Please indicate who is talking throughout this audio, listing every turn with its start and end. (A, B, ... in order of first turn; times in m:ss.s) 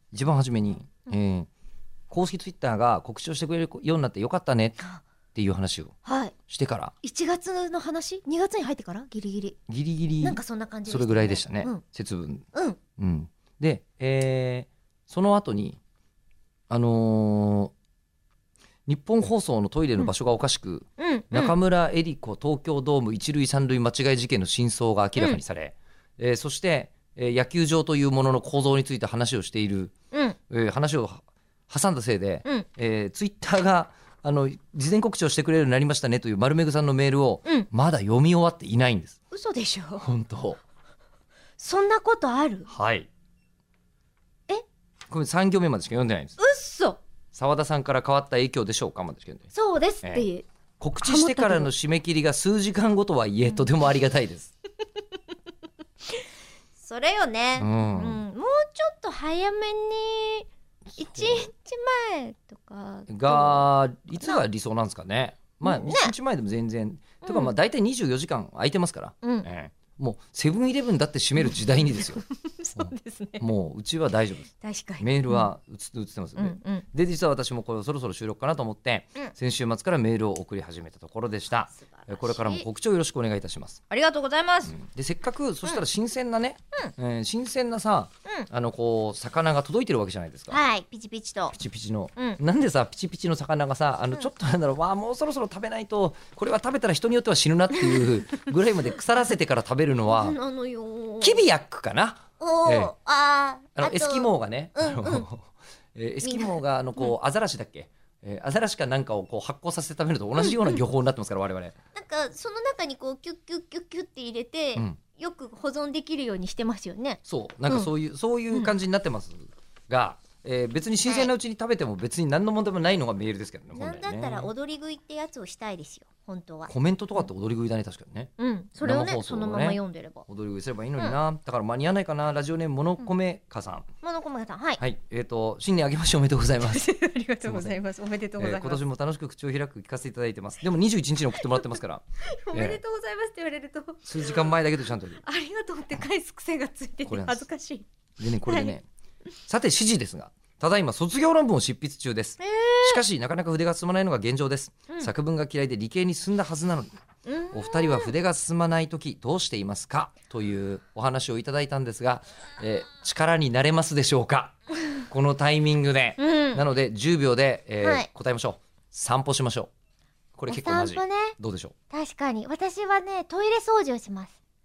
0:00.1-0:01.5 A
0:02.1-0:04.8 A
0:05.3-0:05.9 A
0:06.0-0:06.3 B
0:06.5-0:06.9 A
0:07.0-0:09.6 B
0:09.7-0:12.4 A
0:10.2-0:11.8 B
0:12.5-0:12.8 B
0:13.0-0:15.8 A
0:16.7-0:17.7 A
0:18.9-0:29.9 A
0:21.0-0:21.5 B
0:25.2-0:25.4 B
0:30.1-0:30.4 B
0:30.5-0:39.2 A
0:39.3-0:40.1 B
0:40.0-0:40.6 A
0:41.6-0:42.7 B
0:42.7-0:43.1 A
0:45.1-0:46.4 A
0:46.4-0:47.0 B
0:47.3-0:49.5 A
0:49.5-0:50.4 B
0:50.0-0:50.3 A
0:50.8-0:54.5 A
0:51.0-0:51.7 B
0:56.8-1:04.4 B
0:57.6-0:58.2 A
1:01.0-1:01.5 A
1:03.1-1:12.2 A
1:05.6-1:06.1 B
1:07.2-1:07.5 B
1:09.2-1:09.5 B
1:11.4-1:13.4 B
1:12.8-1:23.8 A
1:14.6-1:15.5 B
1:16.4-1:16.8 B
1:21.8-1:22.6 B
1:23.9-1:24.8 B
1:24.7-1:30.6 A
1:30.5-1:31.6 B
1:31.5-1:40.4 A
1:37.7-1:38.2 B
1:40.1-1:41.4 B
1:41.2-1:42.9 A
1:42.4-1:45.3 B
1:43.8-1:51.8 A
1:46.2-1:47.1 B
1:50.4-1:50.8 B
1:51.9-1:57.9 B
1:57.2-2:04.5 A
2:01.0-2:01.3 B
2:03.8-2:07.2 B
2:06.7-2:13.9 A
2:08.4-2:10.2 B
2:14.0-2:14.8 B
2:14.8-2:16.8 A
2:16.6-2:18.8 B
2:17.4-2:17.8 A
2:18.4-2:22.8 A
2:21.4-2:21.6 B
2:22.3-2:24.5 B
2:24.0-2:25.2 A
2:25.2-2:27.8 B
2:27.0-2:27.4 A
2:28.2-2:28.8 A
2:28.4-2:28.7 B
2:29.4-2:37.0 A
2:32.4-2:33.0 B
2:37.2-2:38.1 B
2:37.5-2:49.7 A
2:46.2-2:46.6 B
2:47.8-2:48.1 B
2:50.4-2:51.7 A
2:50.5-2:51.4 B
2:51.9-2:54.3 B